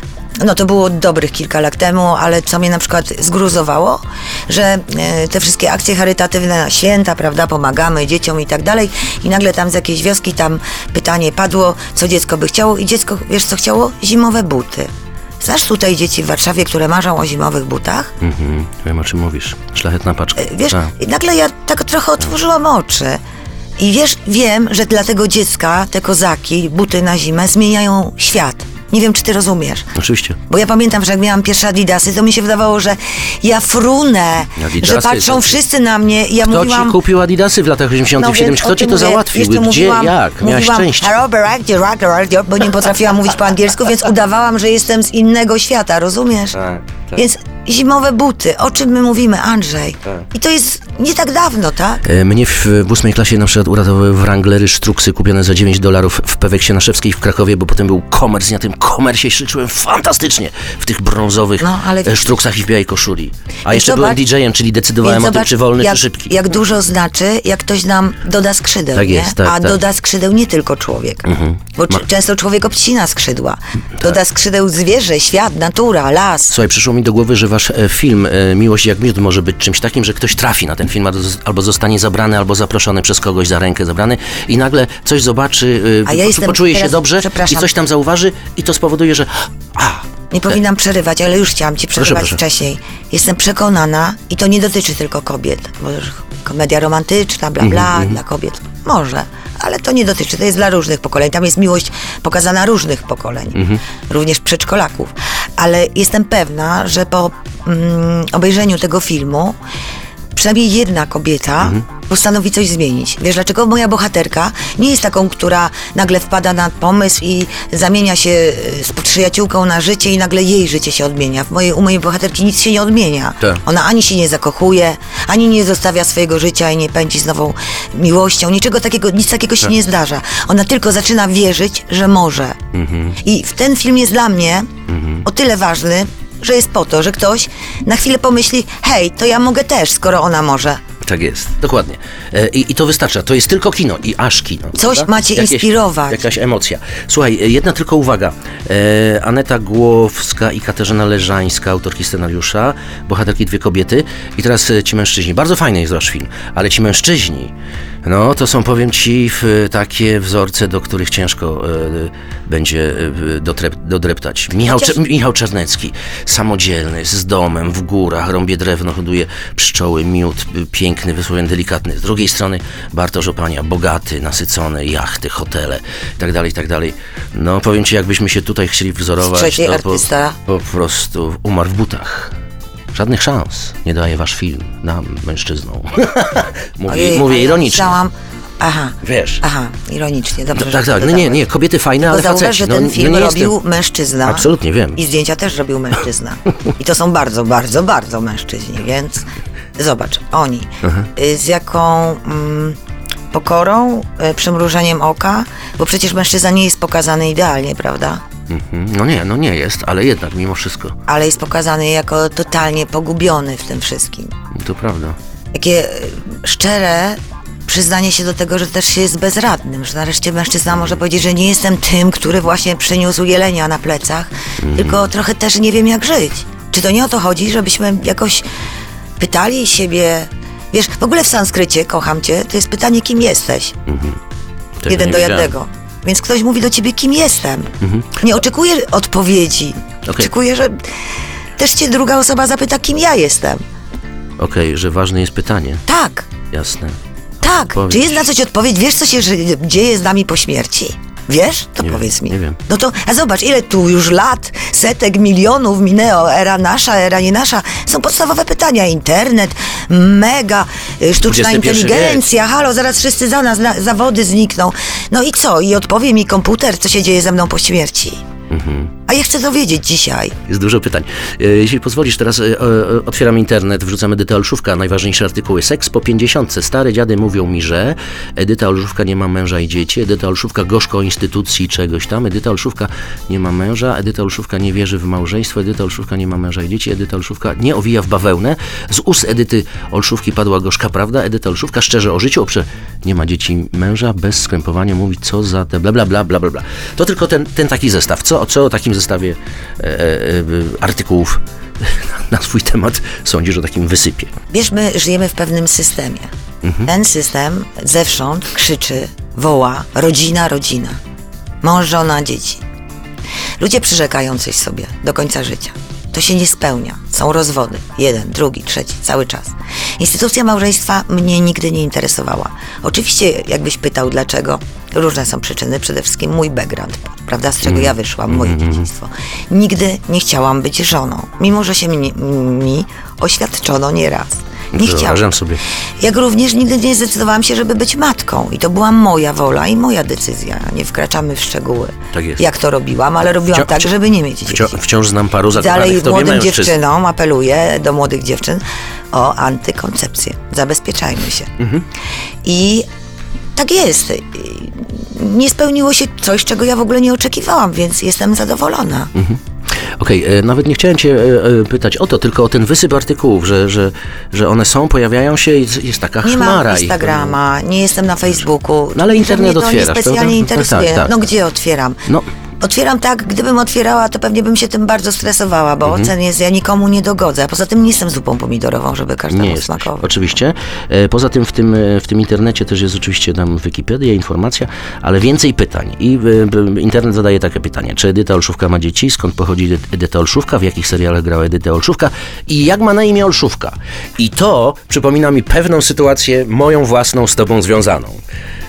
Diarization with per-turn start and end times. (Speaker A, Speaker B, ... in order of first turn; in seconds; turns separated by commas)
Speaker A: 0.4-18.1, Speaker B: 18.2-20.9, Speaker A: 20.4-23.2, Speaker A: 23.8-29.9, Speaker B: 29.9-30.4, Speaker A: 30.5-37.0, Speaker B: 34.6-35.6, Speaker B: 36.4-41.2, Speaker A: 38.1-46.6, Speaker B: 46.5-47.2, Speaker A: 47.1-52.0, Speaker B: 52.0-66.5, Speaker A: 61.6-62.4, Speaker A: 63.7-64.2, Speaker A: 65.0-76.5, Speaker B: 68.9-69.8, Speaker B: 71.2-72.0, Speaker B: 76.5-90.6, Speaker A: 86.0-87.7, Speaker A: 90.3-109.6, Speaker B: 92.0-92.4, Speaker B: 97.6-98.2, Speaker B: 103.5-103.8, Speaker A: 110.3-132.6, Speaker B: 132.7-133.2, Speaker A: 133.2-134.7, Speaker B: 134.9-135.2, Speaker A: 135.2-140.8, Speaker B: 141.0-157.5, Speaker A: 144.8-146.2, Speaker B: 158.0-182.3, Speaker A: 164.7-164.9, Speaker A: 179.2-180.4, Speaker B: 182.9-188.0, Speaker A: 186.9-191.4, Speaker B: 189.0-189.4, Speaker B: 190.5-193.5, Speaker A: 192.0-202.8, Speaker B: 194.2-195.0, Speaker A: 203.3-208.2, Speaker B: 208.5-210.9, Speaker A: 211.1-214.3, Speaker B: 214.5-215.2, Speaker A: 215.5-228.4, Speaker B: 224.6-225.0, Speaker A: 229.2-233.8, Speaker B: 233.9-234.2, Speaker B: 234.8-235.5, Speaker A: 234.9-240.8, Speaker B: 237.8-238.1, Speaker A: 241.6-243.6, Speaker B: 244.4-245.8, Speaker A: 245.9-246.3, Speaker B: 246.5-247.0, Speaker A: 247.4-268.2, Speaker B: 247.5-248.2, Speaker B: 251.8-252.6, Speaker B: 261.2-262.3, Speaker B: 268.5-268.9, Speaker A: 269.1-270.4, Speaker B: 270.5-304.3, Speaker A: 304.5-306.3, Speaker B: 306.6-306.9, Speaker A: 306.8-311.0, Speaker A: 311.6-312.6, Speaker A: 313.6-335.3, Speaker B: 327.6-328.8, Speaker B: 334.7-335.6, Speaker A: 336.0-344.8, Speaker B: 342.1-342.4, Speaker B: 343.5-346.8, Speaker A: 345.5-351.5, Speaker B: 351.6-351.8, Speaker A: 352.4-352.9, Speaker A: 353.6-359.1, Speaker B: 359.1-359.4, Speaker B: 360.0-367.4, Speaker A: 366.2-372.0, Speaker B: 368.9-371.2, Speaker A: 372.6-380.1, Speaker B: 375.9-376.1, Speaker B: 379.3-398.2